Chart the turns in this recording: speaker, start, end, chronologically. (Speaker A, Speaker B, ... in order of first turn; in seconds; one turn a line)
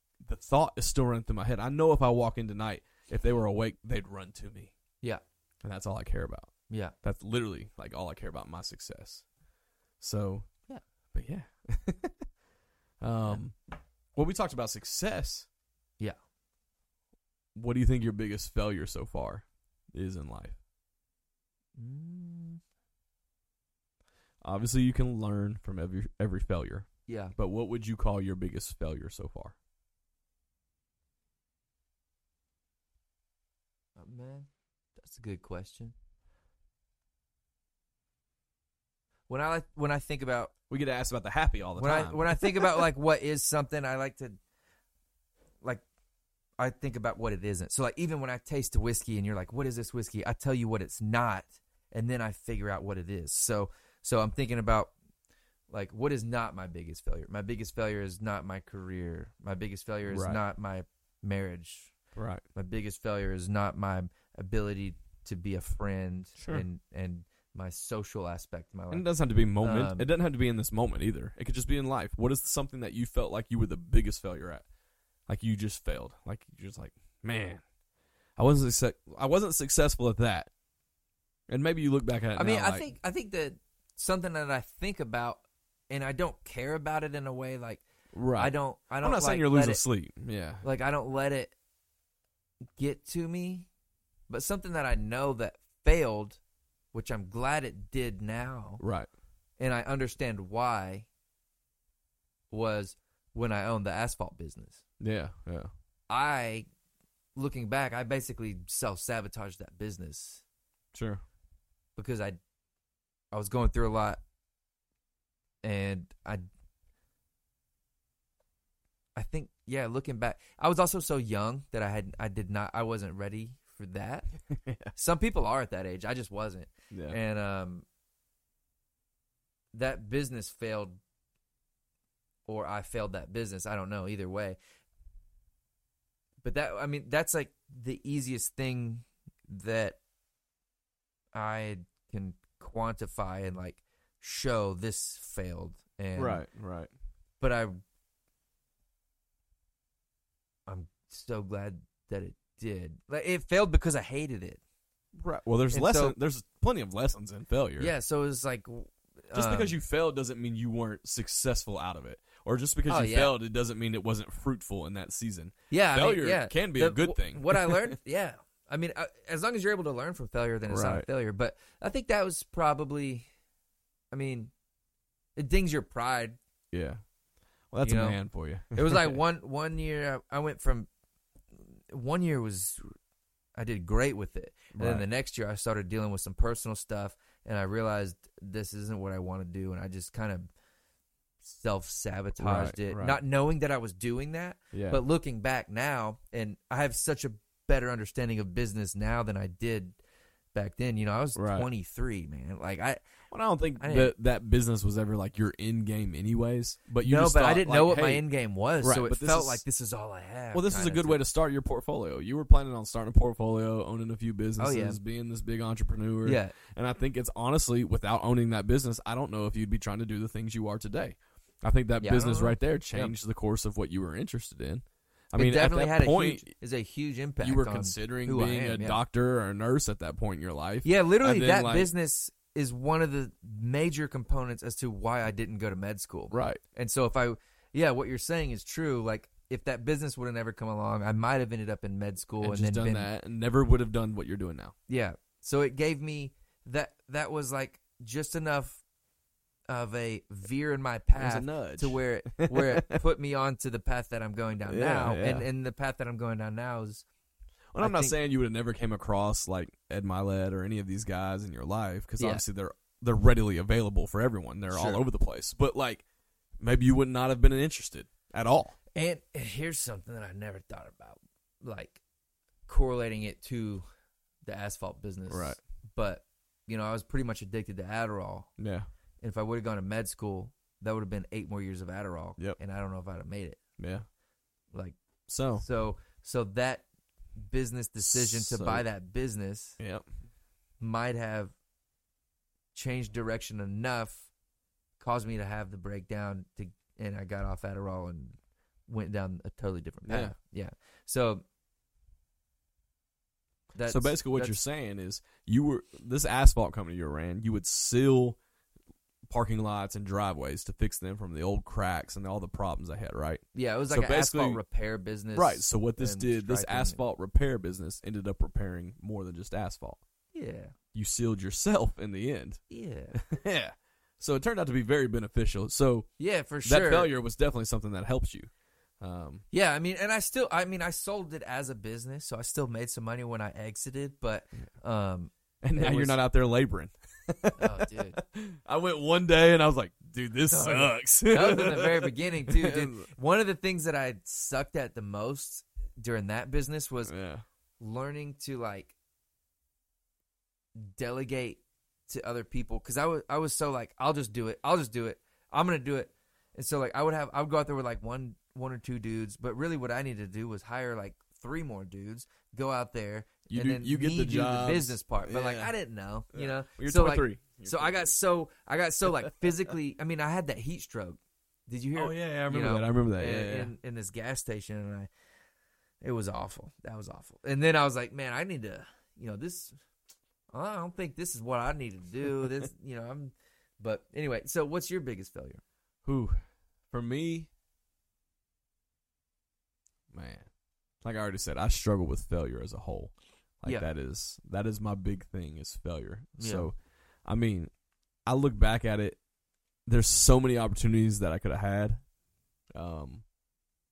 Speaker A: 0.2-4.7
Speaker A: 5.6-6.5
Speaker A: 7.0-9.2
Speaker A: 10.0-10.5
Speaker A: 11.1-12.1
Speaker A: 13.0-13.6
Speaker A: 14.1-15.5
Speaker A: 17.5-20.6
Speaker B: 21.8-22.6
Speaker A: 24.4-29.5
Speaker B: 27.1-27.3
Speaker B: 34.0-35.9
Speaker B: 39.3-40.5
Speaker A: 40.7-42.8
Speaker B: 41.8-44.4
Speaker B: 46.6-54.9
Speaker B: 55.7-61.9
Speaker A: 60.1-60.4
Speaker A: 62.1-62.4
Speaker B: 62.5-69.0
Speaker A: 66.4-66.7
Speaker A: 68.9-74.6
Speaker B: 69.6-70.1
Speaker A: 75.3-77.6
Speaker A: 78.4-80.5
Speaker A: 81.5-82.8
Speaker B: 82.3-87.8
Speaker A: 88.1-90.6
Speaker B: 88.3-89.8
Speaker B: 90.6-91.5
Speaker B: 92.8-93.7
Speaker B: 94.3-96.4
Speaker B: 96.9-98.8
Speaker A: 98.8-99.1
Speaker B: 99.6-101.1
Speaker B: 102.5-104.8
Speaker A: 105.0-105.7
Speaker B: 106.1-106.7
Speaker B: 107.3-110.4
Speaker A: 110.9-111.2
Speaker B: 112.0-112.4
Speaker B: 113.3-114.2
Speaker B: 115.6-116.4
Speaker B: 119.2-124.3
Speaker A: 124.5-124.9
Speaker B: 124.9-127.8
Speaker A: 126.9-127.2
Speaker B: 129.7-131.0
Speaker B: 132.5-134.6
Speaker B: 136.4-140.0
Speaker B: 141.3-146.4
Speaker A: 146.2-146.9
Speaker B: 147.4-147.8
Speaker B: 150.7-154.6
Speaker A: 155.2-157.9
Speaker B: 155.7-156.1
Speaker B: 157.8-159.7
Speaker A: 159.3-168.0
Speaker B: 162.9-163.3
Speaker B: 165.7-173.2
Speaker A: 170.7-171.1
Speaker B: 174.1-174.5
Speaker B: 175.3-176.4
Speaker A: 176.7-177.0
Speaker A: 177.7-179.2
Speaker B: 177.8-178.2
Speaker B: 178.7-180.9
Speaker B: 181.9-182.9
Speaker B: 183.6-190.5
Speaker A: 184.7-185.0
Speaker B: 191.4-200.0
Speaker A: 192.4-193.2
Speaker A: 194.7-195.0
Speaker B: 200.5-203.0
Speaker A: 201.3-201.7
Speaker A: 203.3-208.2
Speaker B: 203.8-204.1
Speaker B: 207.0-211.2
Speaker A: 208.8-209.6
Speaker A: 210.5-226.5
Speaker B: 214.6-215.0
Speaker B: 216.2-216.5
Speaker B: 222.0-223.1
Speaker B: 225.3-229.0
Speaker A: 227.4-231.9
Speaker B: 230.8-243.1
Speaker A: 236.3-236.6
Speaker A: 242.4-244.7
Speaker B: 244.9-248.8
Speaker B: 249.7-257.0
Speaker A: 251.2-253.0
Speaker A: 254.7-255.5
Speaker A: 257.7-266.0
Speaker B: 257.8-258.1
Speaker B: 264.7-265.0
Speaker A: 266.6-268.7
Speaker B: 268.9-272.0
Speaker B: 272.6-273.8
Speaker B: 274.4-278.5
Speaker A: 275.3-275.6
Speaker A: 278.6-278.9
Speaker B: 279.2-283.6
Speaker A: 283.8-284.1
Speaker A: 285.3-285.6
Speaker B: 285.6-286.8
Speaker B: 287.4-289.8
Speaker A: 288.0-288.8
Speaker A: 289.8-290.0
Speaker B: 290.8-291.5
Speaker B: 292.7-294.3
Speaker B: 295.0-298.4
Speaker B: 298.9-301.4
Speaker A: 300.1-300.3
Speaker B: 303.7-304.6
Speaker A: 303.9-308.4
Speaker A: 309.3-314.6
Speaker B: 313.5-317.0
Speaker A: 315.4-320.0
Speaker B: 320.3-320.7
Speaker A: 320.9-322.6
Speaker B: 322.7-323.2
Speaker A: 323.1-326.1
Speaker B: 326.2-327.1
Speaker A: 326.6-329.4
Speaker B: 329.5-336.2
Speaker A: 335.6-343.1
Speaker B: 337.6-338.2
Speaker B: 340.5-347.1
Speaker A: 347.0-347.4
Speaker B: 347.8-348.9
Speaker B: 350.8-375.1
Speaker A: 363.5-365.7
Speaker A: 366.3-368.1
Speaker A: 369.2-369.5
Speaker A: 371.9-373.7
Speaker B: 376.0-379.8
Speaker B: 380.5-385.6
Speaker A: 386.0-387.5
Speaker A: 390.1-390.5
Speaker A: 391.0-397.7
Speaker B: 396.4-396.7
Speaker A: 398.2-399.2
Speaker A: 399.9-402.0
Speaker A: 402.7-403.2